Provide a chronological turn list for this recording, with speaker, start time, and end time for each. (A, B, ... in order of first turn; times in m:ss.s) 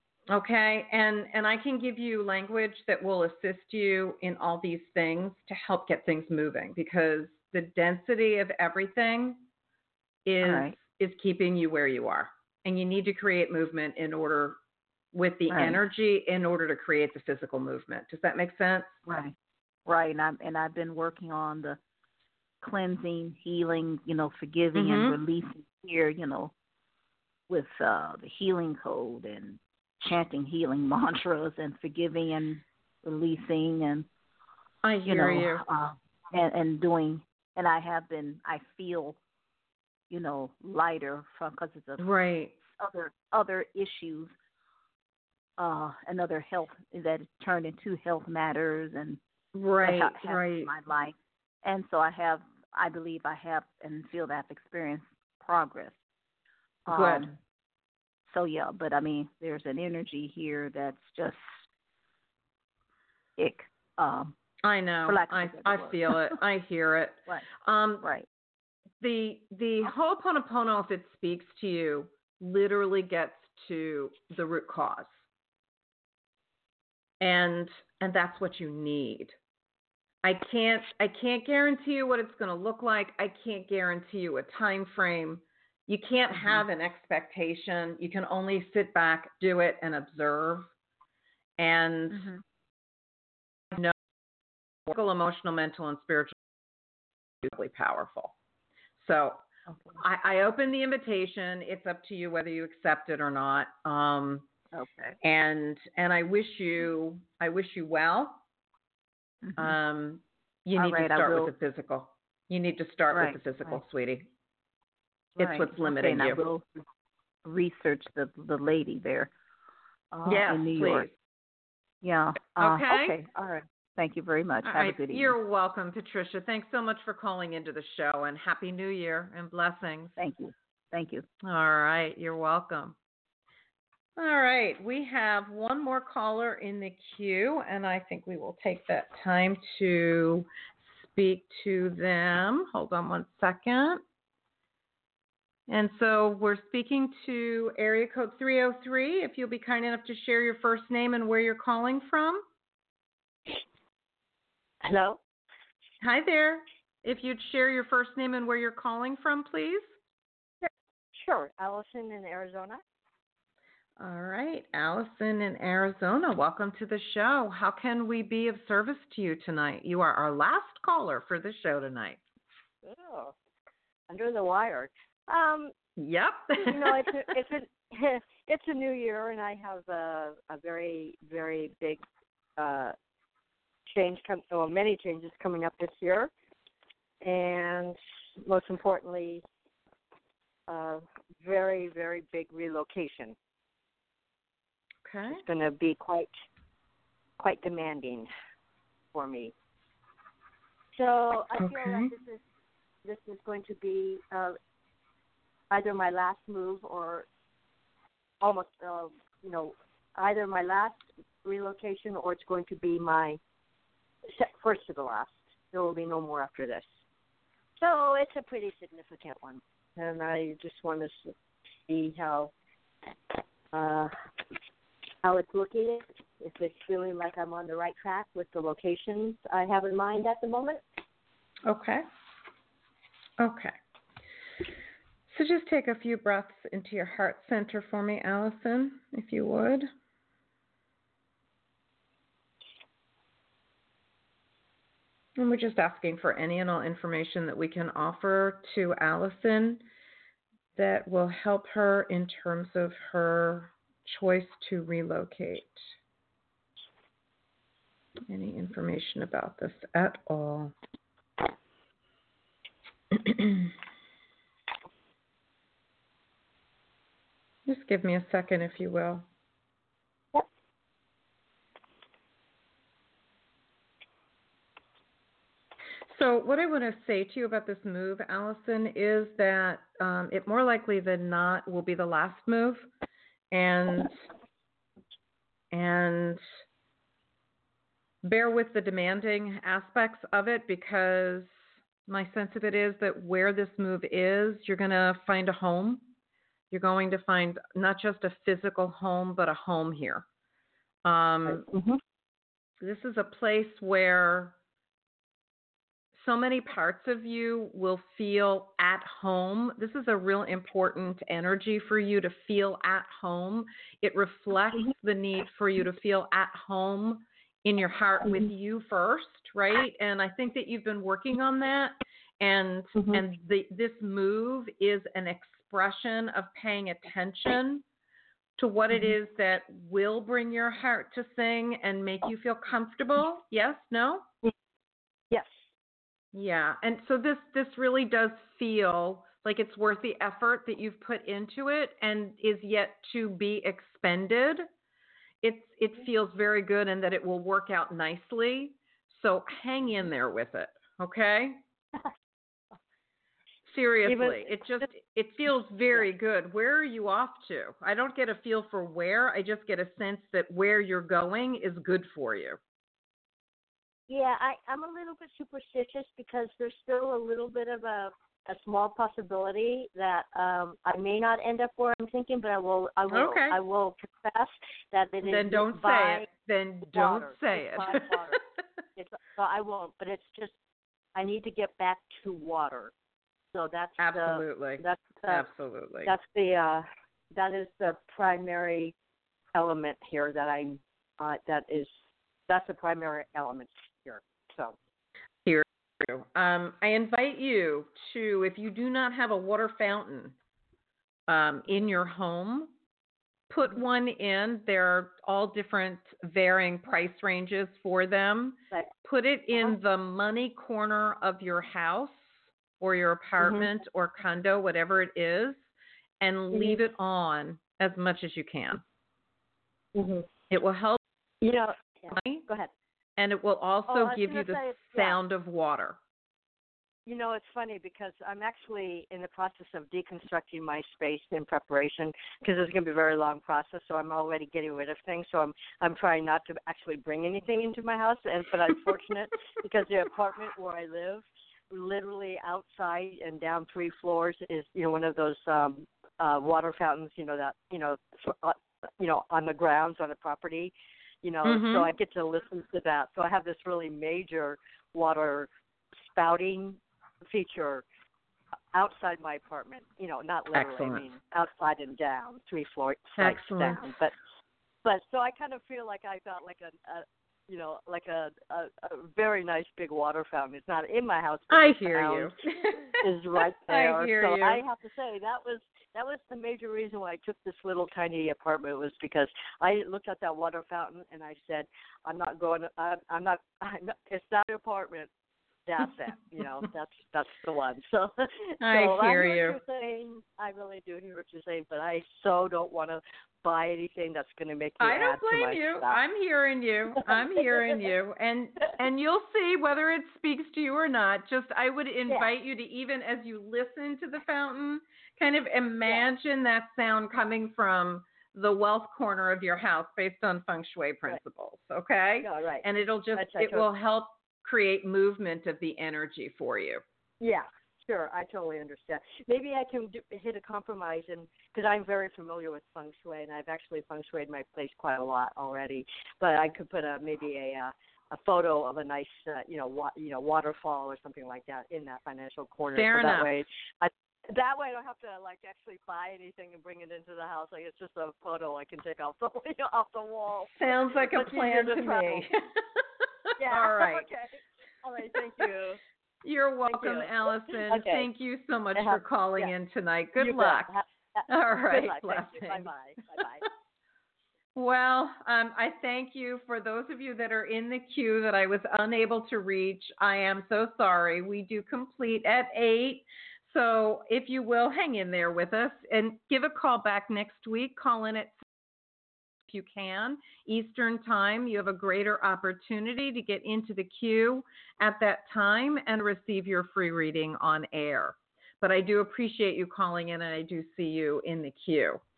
0:00.3-0:09.4 A
0:10.3-0:14.6 A
0:10.4-0:10.7 B
0:15.1-0:19.0 A
0:15.5-0:15.8 B
0:19.0-0:19.3 B
0:19.9-0:21.8 B
0:22.6-0:26.5 B
0:24.7-0:25.2 A
0:27.5-0:34.1 B
0:34.8-0:35.6 A
0:35.0-0:39.2 B
0:40.1-0:42.0 B
0:42.0-0:42.5 A
0:42.8-0:44.3 B
0:45.6-0:49.2 B
0:49.5-0:50.7 A
0:49.8-0:56.0 B
0:56.9-0:57.3 B
0:56.9-0:57.3 A
0:58.3-1:01.6 B
1:03.4-1:04.3 B
1:04.6-1:08.1 A
1:05.1-1:06.3 B
1:08.0-1:08.3 B
1:09.0-1:15.2 A
1:17.2-1:19.3 A
1:20.2-1:30.7 A
1:31.6-1:32.3 A
1:32.1-1:32.4 B
1:34.9-1:36.3 A
1:37.4-1:38.3 A
1:39.0-1:39.4 A
1:39.7-1:40.0 B
1:40.0-1:44.4 A
1:44.7-1:45.2 B
1:45.2-1:48.4 A
1:49.4-1:49.8 B
1:49.6-1:54.3 A
1:50.8-1:51.5 B
1:53.1-1:53.8 B
1:55.4-1:56.4 A
1:55.4-1:56.6 B
1:57.4-1:59.3 B
2:00.1-2:01.1 B
2:00.3-2:01.2 A
2:02.0-2:05.4 B
2:02.6-2:03.2 A
2:04.6-2:10.2 A
2:10.2-2:11.3 B
2:11.4-2:12.9 A
2:14.2-2:24.0 A
2:25.7-2:32.4 A
2:34.8-2:35.2 C
2:36.0-2:39.8 A
2:40.6-2:42.8 C
2:44.0-2:52.2 A
2:52.8-2:53.3 C
2:54.1-2:55.7 C
2:56.0-2:57.2 A
2:56.6-3:02.0 C
3:02.6-3:02.9 C
3:03.9-3:06.3 C
3:07.2-3:09.4 C
3:10.7-3:13.4 C
3:15.0-3:15.4 A
3:15.3-3:16.3 C
3:17.4-3:18.3 C
3:19.1-3:19.5 C
3:21.0-3:22.4 C
3:21.6-3:22.1 A
3:23.0-3:24.6 C
3:25.7-3:27.3 C
3:28.4-3:33.4 C
3:34.3-3:36.9 C
3:37.8-3:41.3 C
3:41.9-3:42.5 C
3:43.7-3:44.1 C
3:45.2-3:50.8 C
3:51.6-3:52.0 A
3:53.4-3:53.8 A
3:55.3-3:59.9 A
4:05.4-4:09.8 A
4:10.8-4:15.9 A
4:18.3-4:20.7 A
4:23.1-4:23.7 A
4:27.6-4:29.3 A
4:36.1-4:42.9 A
4:43.5-4:44.1 A
4:45.7-4:46.4 A
4:48.2-4:56.0 A
4:56.7-5:00.3 A
5:01.0-5:01.6 A
5:01.5-5:02.0 C
5:02.8-5:04.6 A
5:06.1-5:27.8 A
5:23.0-5:23.2 C
5:28.6-5:34.2 A
5:36.3-5:44.6 A
5:45.4-5:51.6 A
5:53.7-6:02.6 A
5:54.0-5:54.8 C
6:04.1-6:16.3 C
6:13.1-6:13.6 A
6:15.2-6:18.2 A
6:16.9-6:18.4 C
6:19.0-6:20.6 C
6:21.1-6:22.9 C
6:23.5-6:25.4 C
6:24.0-6:26.1 A
6:26.0-6:28.9 C
6:29.5-6:31.9 C
6:32.5-6:34.8 C
6:35.4-6:40.4 A
6:41.3-6:42.7 A
6:43.5-6:55.7 A
6:53.4-6:53.7 C
6:56.2-6:58.8 A
6:56.5-6:56.8 C
6:59.9-7:00.3 C
7:00.5-7:01.0 A
7:01.4-7:02.7 C
7:02.1-7:02.4 A
7:03.2-7:06.0 A
7:03.9-7:05.2 C
7:07.0-7:35.5 C
7:31.4-7:31.9 A
7:36.0-7:37.8 C
7:38.7-7:44.1 C
7:40.5-7:41.0 A
7:43.2-7:43.9 A
7:44.8-7:52.3 C
7:51.5-7:53.0 A
7:53.0-8:05.1 C
7:53.6-7:54.6 A
8:05.7-8:16.0 C
8:08.6-8:09.6 A
8:14.8-8:36.8 A
8:17.1-8:17.8 C
8:32.2-8:33.7 C
8:37.2-9:02.3 C
8:52.7-8:53.3 A
9:00.5-9:02.6 A
9:03.4-9:05.8 C
9:03.4-9:04.0 A
9:06.2-9:10.7 A
9:06.7-9:08.1 C
9:08.7-9:09.5 C
9:10.2-9:13.5 C
9:11.3-9:12.7 A
9:14.6-9:28.3 A
9:29.5-9:42.0 A